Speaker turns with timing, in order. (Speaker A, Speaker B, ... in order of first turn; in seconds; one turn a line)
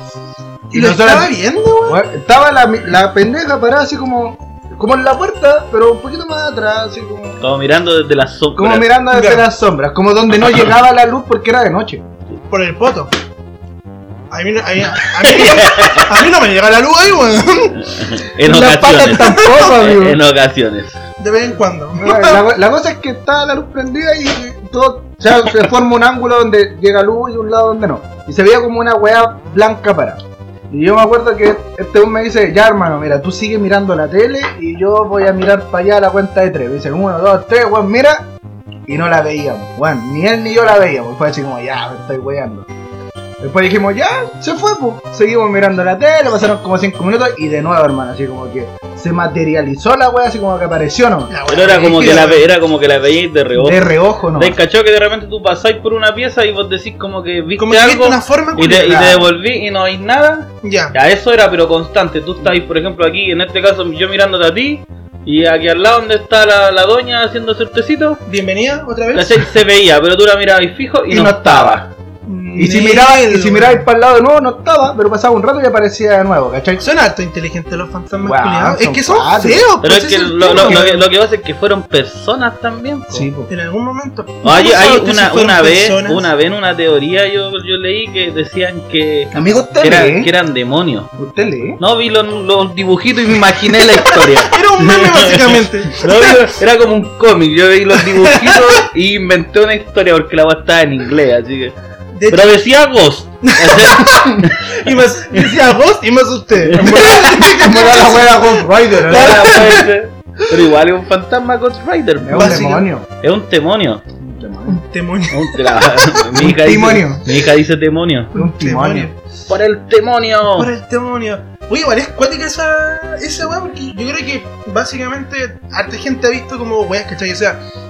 Speaker A: 0.7-2.0
Speaker B: 0.7-7.4
Speaker C: 7.4-8.9
Speaker B: 8.6-12.1
Speaker A: 9.1-9.5
Speaker A: 12.5-13.1
Speaker A: 14.3-18.1
Speaker C: 15.2-16.1
Speaker C: 17.8-21.0
Speaker B: 18.4-20.2
Speaker A: 19.0-19.9
Speaker A: 21.2-22.5
Speaker B: 22.0-38.3
Speaker B: 38.9-42.7
Speaker B: 43.4-51.3
Speaker A: 51.3-52.5
Speaker C: 51.5-68.2
Speaker B: 53.5-54.6
Speaker A: 57.6-59.0
Speaker B: 58.7-59.3
Speaker A: 60.6-61.0
Speaker A: 68.3-69.5
Speaker C: 69.1-71.9
Speaker B: 71.1-71.9
Speaker A: 72.3-73.9
Speaker B: 72.5-76.9
Speaker A: 76.8-81.1
Speaker B: 78.2-79.7
Speaker C: 79.8-83.3
Speaker B: 80.5-80.9
Speaker B: 83.1-83.5
Speaker A: 83.5-86.3
Speaker C: 84.4-91.1
Speaker B: 89.3-90.3
Speaker B: 91.2-91.8
Speaker C: 91.8-101.8
Speaker A: 94.5-96.3
Speaker A: 98.1-98.7
Speaker A: 102.1-102.7
Speaker C: 102.3-105.5
Speaker A: 103.5-109.8
Speaker C: 106.7-107.2
Speaker B: 106.7-109.8
Speaker C: 109.1-112.7
Speaker B: 112.2-113.1
Speaker A: 112.3-112.9
Speaker C: 113.2-114.0
Speaker B: 114.2-114.8
Speaker A: 114.7-116.2
Speaker C: 115.3-118.3
Speaker B: 116.3-117.3
Speaker B: 118.3-119.1
Speaker A: 118.3-119.2
Speaker C: 119.5-120.7
Speaker A: 120.5-127.6